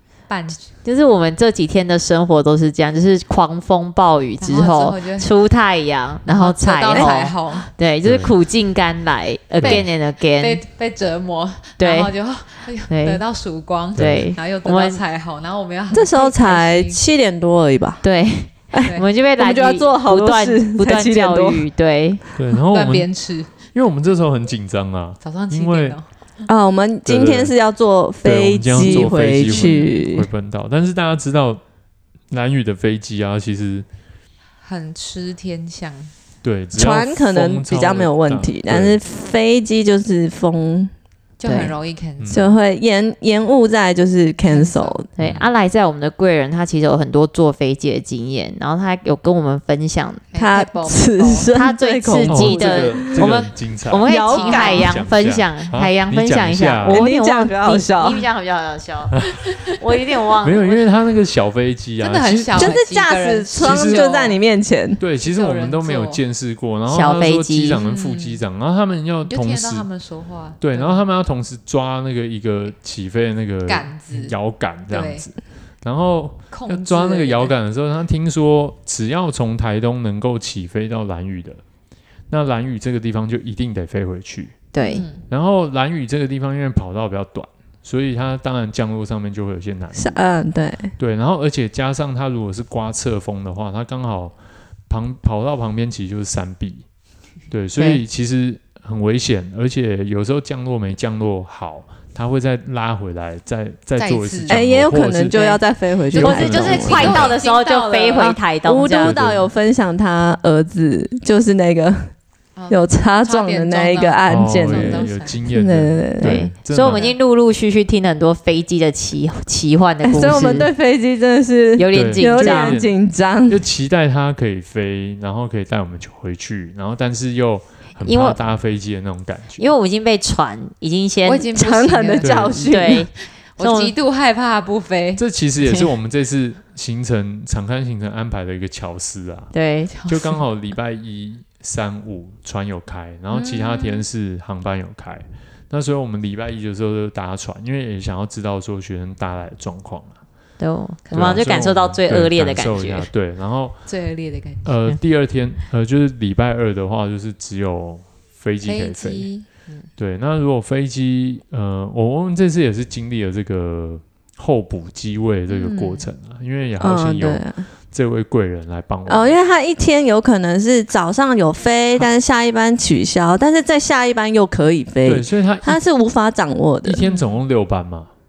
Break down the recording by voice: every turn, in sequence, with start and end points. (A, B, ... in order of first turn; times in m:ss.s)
0:00.3-0:00.6 A
0:00.8-0:10.6 B
0:04.4-0:05.3 A
0:06.3-0:07.7 A
0:08.0-0:08.3 C
0:09.6-0:09.8 C
0:09.6-0:17.0 A
0:11.8-0:12.2 B
0:12.9-0:13.2 B
0:14.0-0:14.3 C
0:14.0-0:15.0 B
0:15.9-0:18.0 D
0:18.0-0:22.2 B
0:18.7-0:21.6 D
0:22.4-0:26.0 C
0:22.7-0:23.5 A
0:25.2-0:26.1 A
0:26.5-0:30.3 D
0:27.1-0:27.5 C
0:28.2-0:31.6 C
0:28.8-0:29.9 A
0:32.3-0:33.9 C
0:34.6-0:36.1 A
0:36.4-0:39.0 C
0:36.7-0:40.9 D
0:41.4-0:42.4 A
0:41.4-0:41.7 B
0:42.2-0:42.5 C
0:42.3-0:45.1 D
0:44.5-0:45.0 A
0:45.2-0:50.2 B
0:45.2-0:45.5 C
0:50.3-0:51.5 A
0:50.4-0:53.3 D
0:51.5-1:00.8 B
0:52.3-0:54.1 C
0:54.0-0:54.9 A
0:54.1-0:54.9 D
0:54.8-0:57.1 C
0:56.9-0:58.2 D
1:00.4-1:02.8 C
1:02.0-1:04.4 A
1:02.6-1:05.0 D
1:03.6-1:04.1 C
1:05.0-1:09.9 C
1:05.2-1:06.2 A
1:06.9-1:07.8 B
1:07.7-1:08.4 A
1:09.3-1:11.0 A
1:10.6-1:21.6 C
1:13.7-1:14.4 A
1:14.9-1:15.2 A
1:16.5-1:17.5 A
1:22.3-1:24.7 C
1:24.7-1:25.0 B
1:24.8-1:25.2 A
1:25.3-1:30.2 C
1:30.0-1:30.9 D
1:31.0-1:34.4 C
1:34.9-1:36.8 C
1:37.5-1:47.3 C
1:44.0-1:44.6 A
1:44.5-1:47.3 D
1:46.2-1:49.2 B
1:46.5-1:48.4 A
1:48.2-1:52.1 D
1:49.0-1:49.5 C
1:52.6-1:55.4 A
1:52.7-1:56.5 D
1:54.3-1:57.1 C
1:56.2-2:00.7 B
1:56.9-1:57.2 A
2:00.0-2:03.6 D
2:01.8-2:02.8 B
2:01.9-2:03.0 C
2:03.5-2:09.7 C
2:08.0-2:08.4 B
2:09.6-2:11.5 B
2:11.3-2:12.7 A
2:11.5-2:13.1 D
2:12.2-2:12.6 C
2:12.5-2:13.9 B
2:13.6-2:15.2 A
2:15.2-2:30.2 C
2:19.5-2:19.9 B
2:20.0-2:20.4 A
2:23.3-2:24.0 A
2:30.6-2:33.1 B
2:31.1-2:33.8 C
2:33.9-2:34.8 A
2:34.6-2:39.3 C
2:38.6-2:39.9 A
2:40.0-2:49.4 C
2:45.5-2:46.1 A
2:46.8-2:47.6 D
2:49.1-2:57.0 D
2:55.0-2:55.8 C
2:56.8-2:58.1 C
2:57.0-2:57.4 A